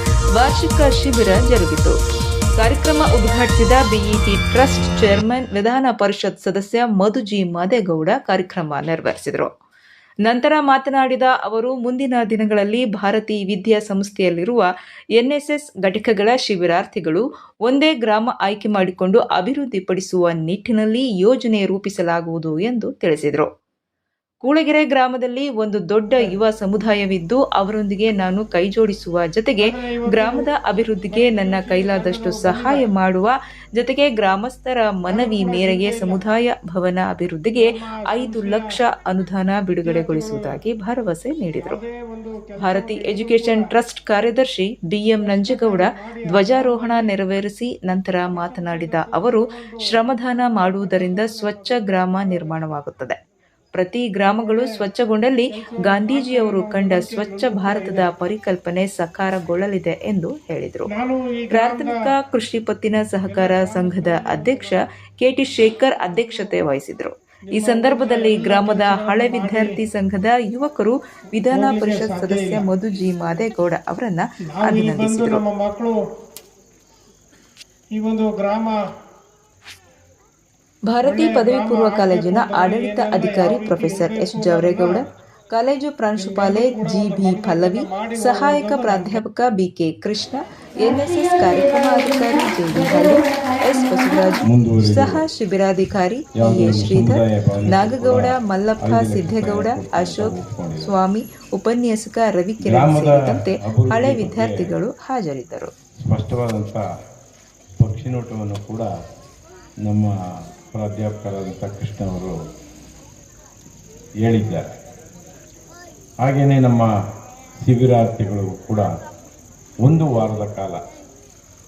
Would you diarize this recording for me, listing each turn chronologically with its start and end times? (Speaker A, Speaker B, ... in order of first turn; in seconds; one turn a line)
Speaker A: 0.4-2.0
Speaker A: 2.6-9.5
Speaker A: 10.2-23.5
Speaker A: 24.4-41.8
Speaker B: 29.6-30.5
Speaker B: 31.1-32.9
Speaker B: 35.1-36.2
Speaker B: 37.5-38.6
Speaker B: 39.8-40.5
Speaker B: 41.6-43.8
Speaker A: 42.6-53.2
Speaker B: 45.2-47.1
Speaker B: 48.3-49.8
Speaker B: 50.6-52.6
Speaker A: 53.8-60.9
Speaker B: 54.2-54.7
Speaker B: 55.5-58.1
Speaker B: 60.9-62.0
Speaker A: 61.5-75.4
Speaker B: 63.3-64.8
Speaker B: 66.1-66.5
Speaker B: 67.5-69.8
Speaker B: 71.5-72.7
Speaker B: 74.4-76.0
Speaker B: 77.9-78.8
Speaker A: 80.9-105.7
Speaker B: 81.0-85.0
Speaker B: 86.2-89.2
Speaker C: 94.5-95.2
Speaker C: 96.4-100.9
Speaker C: 102.7-104.7
Speaker C: 106.0-106.8
Speaker C: 107.8-108.9
Speaker C: 109.8-110.1
Speaker C: 110.7-112.4
Speaker C: 114.2-114.7
Speaker C: 116.2-116.9
Speaker C: 117.6-118.9
Speaker C: 119.8-120.8